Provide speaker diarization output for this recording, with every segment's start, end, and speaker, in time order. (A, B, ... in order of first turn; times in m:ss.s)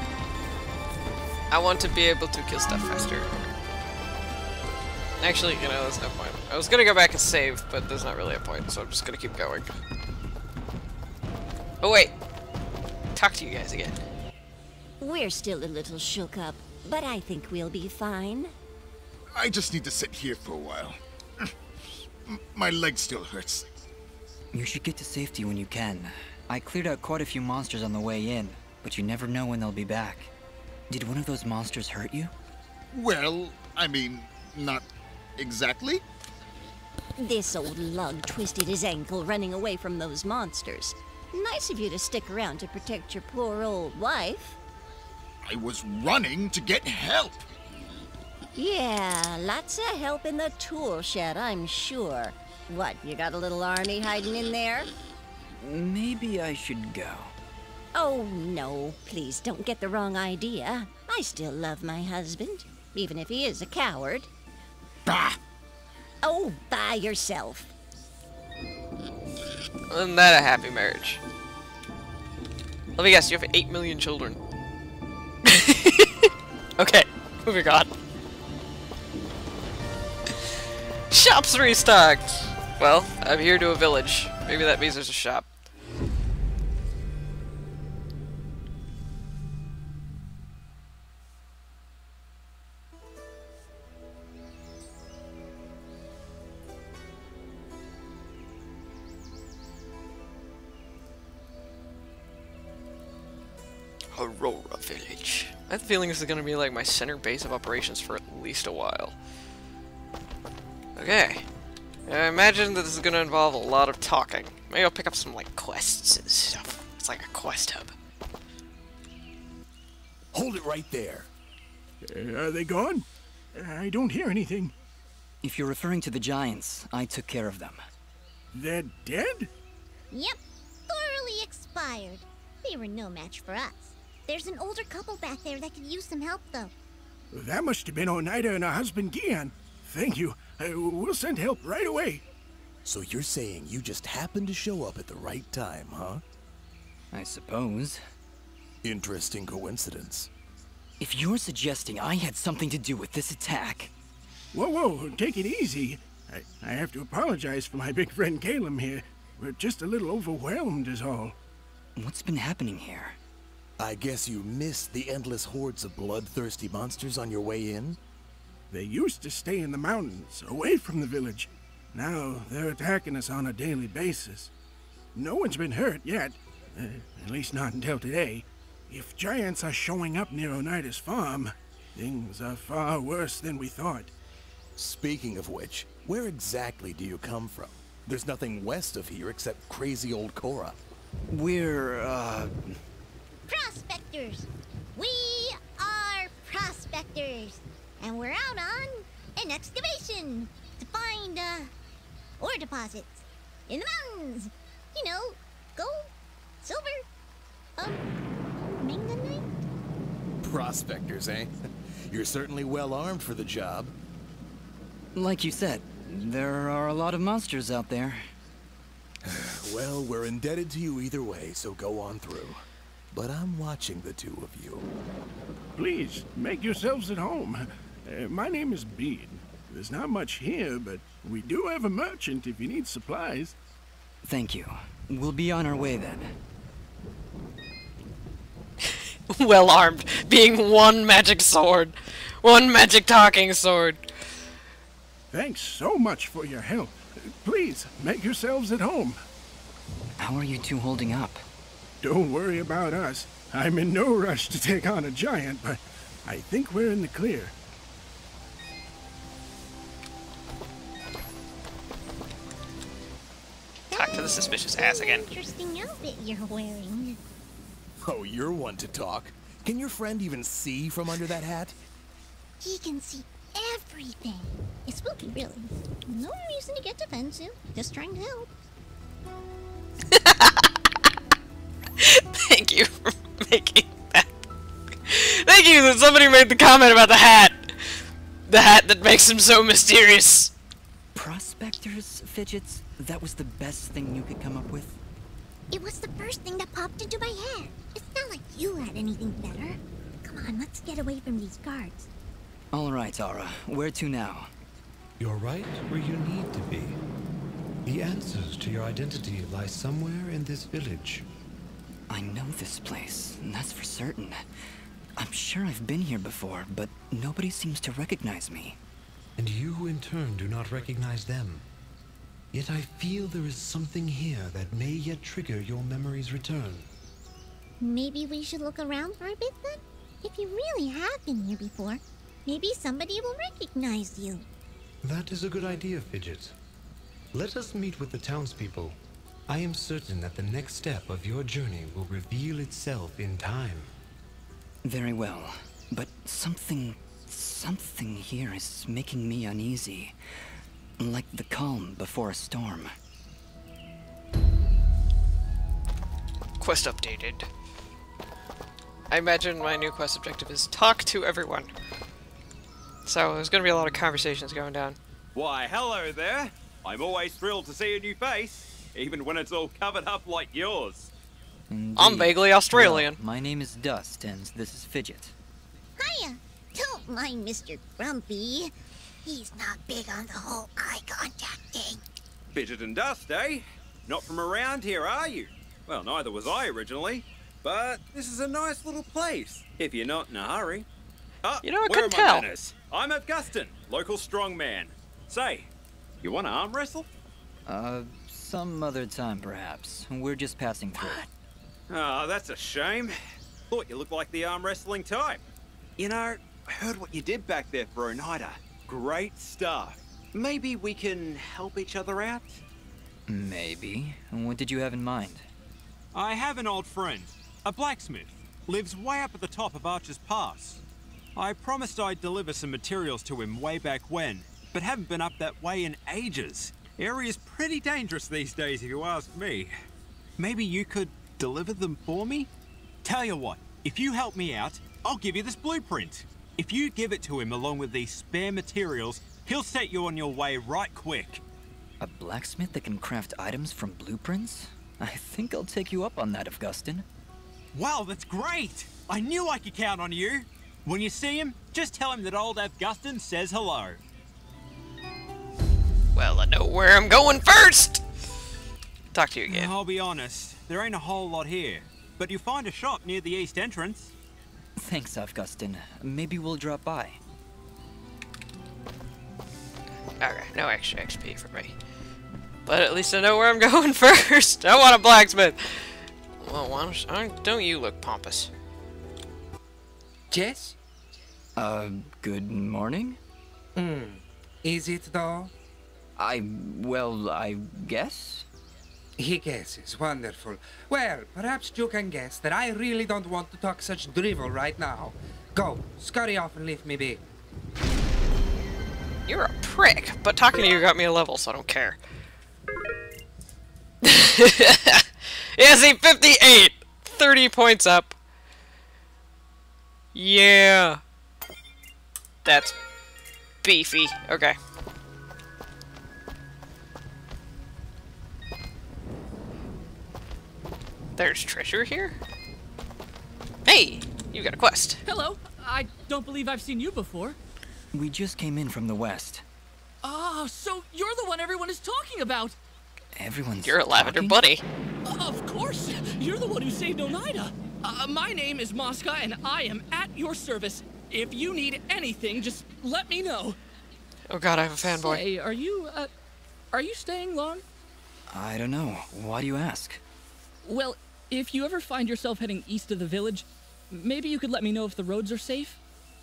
0:01.5-0:03.5 A
0:05.2-0:09.7 A
0:11.8-0:12.1 A
0:13.2-0:14.0 A
0:15.0-0:18.5 B
0:19.4-0:21.0 C
0:22.3-0:23.6 C
0:24.5-0:30.3 D
0:30.9-0:32.3 D
0:32.9-0:34.8 C
0:35.4-0:36.0 C
0:37.2-0:44.6 B
0:45.5-0:47.4 C
0:48.6-0:54.9 B
0:55.6-0:57.3 D
0:57.9-1:04.3 B
1:05.1-1:05.4 C
1:06.2-1:07.7 B
1:09.9-1:11.2 A
1:13.0-1:14.4 A
1:15.5-1:17.9 A
1:21.1-1:25.5 A
1:44.1-1:49.2 A
1:51.0-1:51.4 A
1:52.1-1:57.9 A
2:00.3-2:01.3 E
2:02.0-2:04.7 F
2:05.4-2:07.8 D
2:08.5-2:09.5 F
2:10.1-2:10.4 G
2:10.9-2:16.7 G
2:17.3-2:22.2 F
2:22.8-2:26.2 E
2:27.1-2:28.0 D
2:28.8-2:30.3 E
2:31.0-2:33.9 D
2:34.5-2:41.4 F
2:42.0-2:43.2 D
2:43.8-2:48.0 E
2:48.7-2:54.5 F
2:55.2-3:04.1 F
3:04.8-3:10.8 E
3:11.3-3:12.7 D
3:13.5-3:21.7 G
3:22.4-3:26.1 G
3:26.6-3:27.0 G
3:27.8-3:28.0 G
3:28.6-3:29.6 G
3:30.4-3:31.5 E
3:32.1-3:33.9 E
3:35.2-3:38.2 D
3:39.2-3:42.6 E
3:43.1-3:44.9 E
3:45.8-3:53.5 F
3:54.2-3:56.3 D
3:59.3-4:04.0 A
4:05.3-4:09.2 F
4:10.2-4:11.4 D
4:12.0-4:17.5 F
4:23.9-4:27.2 G
4:23.9-4:25.2 A
4:28.0-4:31.8 E
4:32.6-4:38.5 G
4:40.1-4:40.7 A
4:42.0-4:44.3 A
4:45.1-4:47.8 A
4:48.5-4:50.5 A
4:51.2-4:55.0 D
4:55.7-5:02.1 G
5:02.7-5:04.5 D
5:05.2-5:07.0 H
5:07.9-5:11.2 H
5:12.1-5:14.4 D
5:15.2-5:18.8 D
5:19.4-5:21.6 H
5:22.5-5:26.9 H
5:27.8-5:34.5 G
5:35.0-5:36.5 H
5:37.3-5:43.9 H
5:44.8-5:50.2 D
5:51.0-5:52.9 D
5:56.6-5:57.5 A
5:59.1-6:01.7 A
6:03.1-6:05.0 A
6:05.4-6:11.1 I
6:11.7-6:15.3 D
6:12.0-6:13.2 A
6:16.0-6:18.7 G
6:19.2-6:22.0 G
6:22.5-6:30.9 I
6:31.4-6:35.7 I
6:31.6-6:32.5 A
6:36.2-6:37.1 I
6:37.7-6:41.3 D
6:41.9-6:43.1 I
6:43.7-6:45.4 I
6:46.0-6:52.6 I
6:53.3-6:55.5 D
6:56.1-7:00.8 I
7:01.4-7:09.7 I
7:10.4-7:12.5 I
7:13.0-7:21.4 I
7:22.0-7:27.1 D
7:27.7-7:34.0 I
7:36.2-7:38.0 A
7:39.1-7:39.7 A
7:39.5-7:44.1 I
7:44.8-7:47.2 D
7:50.2-7:51.7 A
7:52.7-7:58.5 A
8:00.3-8:00.8 J
8:01.6-8:03.2 D
8:03.8-8:05.5 J
8:06.2-8:08.5 D
8:09.2-8:17.2 J
8:19.3-8:22.0 A
8:24.0-8:25.0 A
8:25.6-8:28.2 A
8:30.1-8:31.0 A
8:32.4-8:32.8 A
8:33.6-8:34.6 A
8:41.2-8:42.2 A
8:43.6-8:45.0 A
8:45.1-8:47.4 K
8:47.9-8:49.4 D
8:50.0-8:52.6 K
8:53.2-8:54.4 D
8:53.6-8:54.6 A
8:55.0-9:03.6 K
9:04.3-9:05.2 A
9:04.9-9:06.1 K
9:06.7-9:07.6 K
9:08.3-9:10.0 D
9:10.6-9:15.8 K